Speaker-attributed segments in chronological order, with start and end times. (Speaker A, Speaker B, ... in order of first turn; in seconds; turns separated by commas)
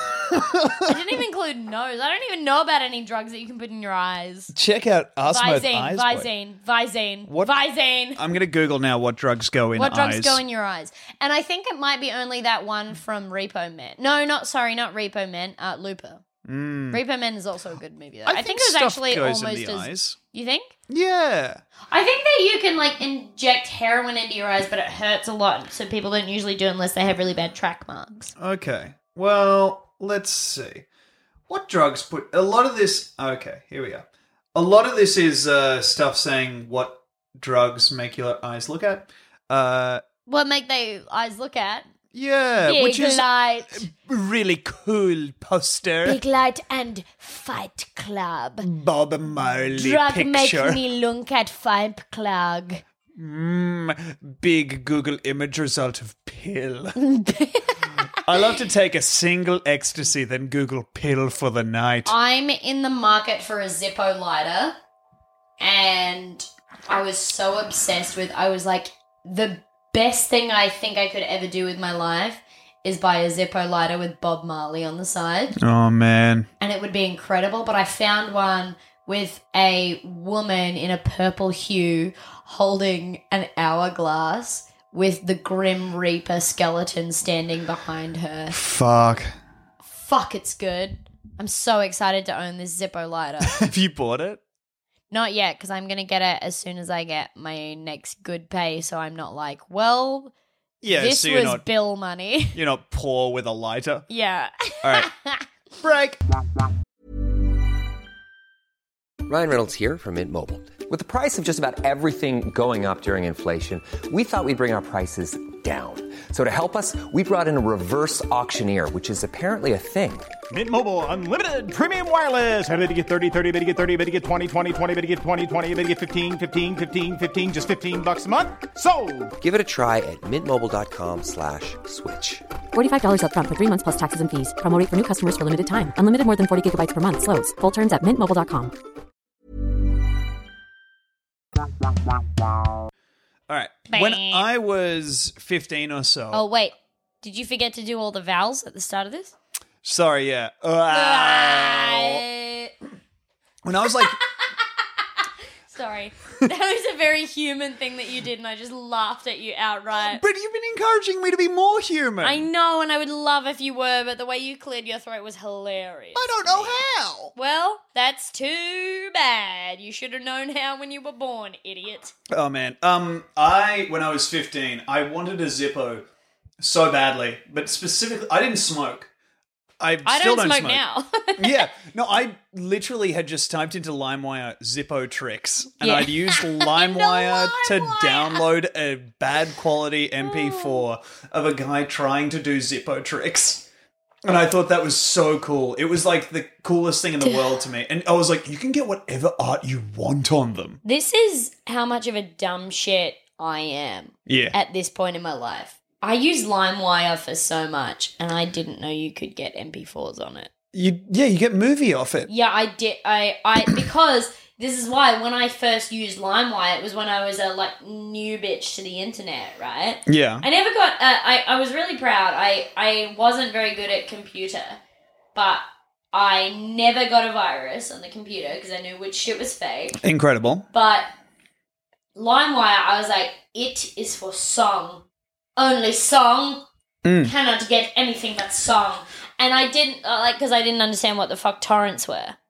Speaker A: 0.3-0.9, Speaker B: 0.8-4.5, Speaker A: 4.5-6.3, Speaker B: 5.2-8.2, Speaker A: 7.3-7.6, Speaker A: 8.2-10.4, Speaker B: 9.8-16.2, Speaker A: 16.4-17.0, Speaker B: 16.9-20.7, Speaker A: 18.3-20.2, Speaker A: 20.9-21.6, Speaker B: 21.9-28.3, Speaker A: 28.4-30.9, Speaker A: 31.5-40.0, Speaker B: 40.3-41.9, Speaker A: 42.1-46.2, Speaker B: 42.6-43.9, Speaker B: 46.0-48.7, Speaker A: 48.6-50.8, Speaker B: 49.8-52.8, Speaker A: 53.1-57.0, Speaker B: 57.0-58.5, Speaker A: 58.2-62.1, Speaker B: 62.1-64.8, Speaker B: 65.6-75.5, Speaker A: 75.6-76.5, Speaker B: 76.6-88.6, Speaker A: 88.5-89.3, Speaker B: 89.9-93.6, Speaker A: 93.4-94.4, Speaker B: 95.1-100.3, Speaker A: 100.8-101.7, Speaker B: 100.9-102.6, Speaker A: 102.5-104.1, Speaker B: 104.1-105.5, Speaker A: 104.8-105.1, Speaker A: 105.8-106.2, Speaker C: 109.3-120.3, Speaker D: 120.5-129.3, Speaker C: 129.4-132.4, Speaker E: 132.7-138.7, Speaker A: 143.5-146.4, Speaker B: 143.9-144.5, Speaker B: 146.3-149.3, Speaker A: 149.8-152.2, Speaker B: 150.9-152.7, Speaker A: 153.6-154.2, Speaker B: 153.8-154.6, Speaker B: 155.7-160.2, Speaker A: 159.9-162.4, Speaker B: 162.2-166.8, Speaker A: 166.2-167.3, Speaker B: 167.3-172.1, Speaker A: 172.3-176.1, Speaker A: 176.6-179.1, Speaker A: 179.8-180.8, Speaker B: 180.1-181.7, Speaker A: 181.4-193.7, Speaker B: 185.8-188.4, Speaker B: 190.2-190.8, Speaker A: 194.2-200.8, Speaker B: 197.2-197.5, Speaker B: 200.8-210.5, Speaker A: 204.3-204.6, Speaker A: 210.7-212.3, Speaker B: 212.3-224.8, Speaker A: 220.1-220.5, Speaker B: 225.3-230.0, Speaker A: 230.0-230.7, Speaker B: 230.7-231.1, Speaker B: 232.2-235.0, Speaker B: 235.6-236.7, Speaker A: 237.0-237.3, Speaker B: 237.2-242.4